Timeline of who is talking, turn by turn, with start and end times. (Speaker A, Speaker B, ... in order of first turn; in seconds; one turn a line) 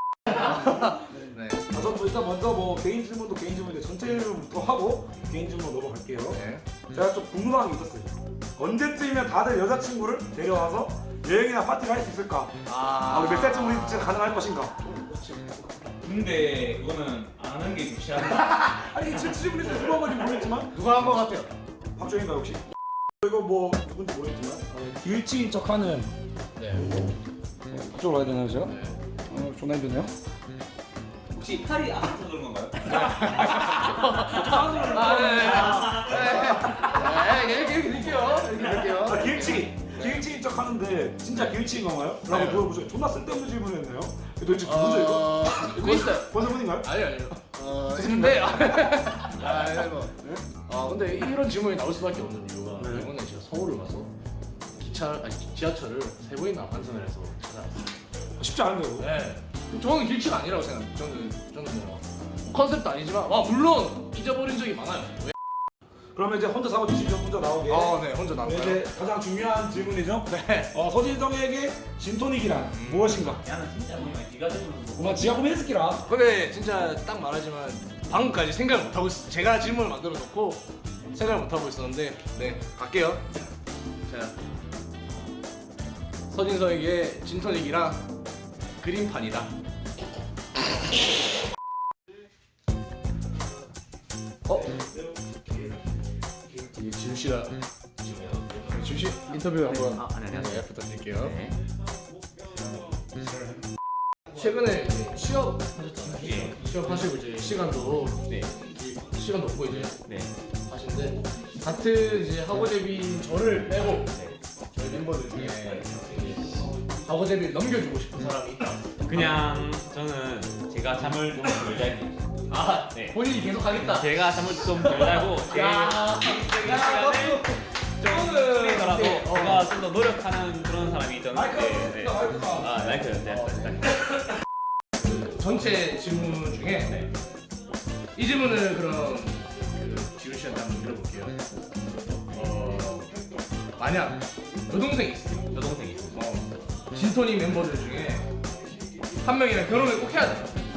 Speaker A: 0.3-1.6
Speaker B: 0.4-6.4
Speaker A: 6.3-6.7
Speaker B: 6.9-14.8
Speaker A: 12.7-14.2
Speaker A: 14.8-15.7
Speaker C: 16.0-18.9
Speaker B: 18.8-20.7
Speaker A: 20.7-21.6
Speaker B: 22.0-22.6
Speaker B: 23.2-26.1
Speaker A: 26.6-27.0
Speaker B: 27.7-30.1
Speaker A: 28.7-28.9
Speaker C: 31.3-34.2
Speaker A: 32.9-40.2
Speaker B: 33.5-35.9
Speaker C: 35.6-36.4
Speaker B: 38.7-46.9
Speaker A: 42.3-42.6
Speaker A: 44.7-54.1
Speaker B: 47.9-48.6
Speaker B: 52.8-53.1
Speaker A: 54.8-57.9
Speaker B: 58.4-59.1
Speaker A: 59.0-65.3
Speaker B: 66.1-73.4
Speaker A: 67.7-68.8
Speaker A: 70.3-70.7
Speaker A: 72.7-73.2
Speaker C: 73.2-75.4
Speaker B: 75.0-76.0
Speaker A: 76.0-83.3
Speaker A: 84.1-84.3
Speaker A: 86.3-88.0
Speaker A: 88.8-89.5
Speaker A: 94.5-94.7
Speaker A: 96.6-97.5
Speaker C: 98.1-98.5
Speaker A: 98.7-101.3
Speaker C: 99.7-101.6
Speaker A: 104.3-110.0
Speaker C: 105.8-106.6
Speaker C: 108.3-108.5
Speaker C: 110.0-110.3
Speaker A: 110.7-114.1
Speaker A: 114.7-119.0
Speaker C: 119.0-122.2
Speaker A: 122.5-126.5
Speaker C: 122.9-123.2
Speaker C: 123.9-134.0
Speaker B: 126.6-127.6
Speaker A: 128.0-129.7
Speaker B: 131.3-133.0
Speaker A: 133.3-133.8
Speaker A: 135.0-137.1
Speaker A: 138.2-141.4
Speaker A: 142.3-143.1
Speaker A: 143.8-145.5
Speaker C: 145.5-146.2
Speaker A: 146.1-148.3
Speaker A: 149.2-150.6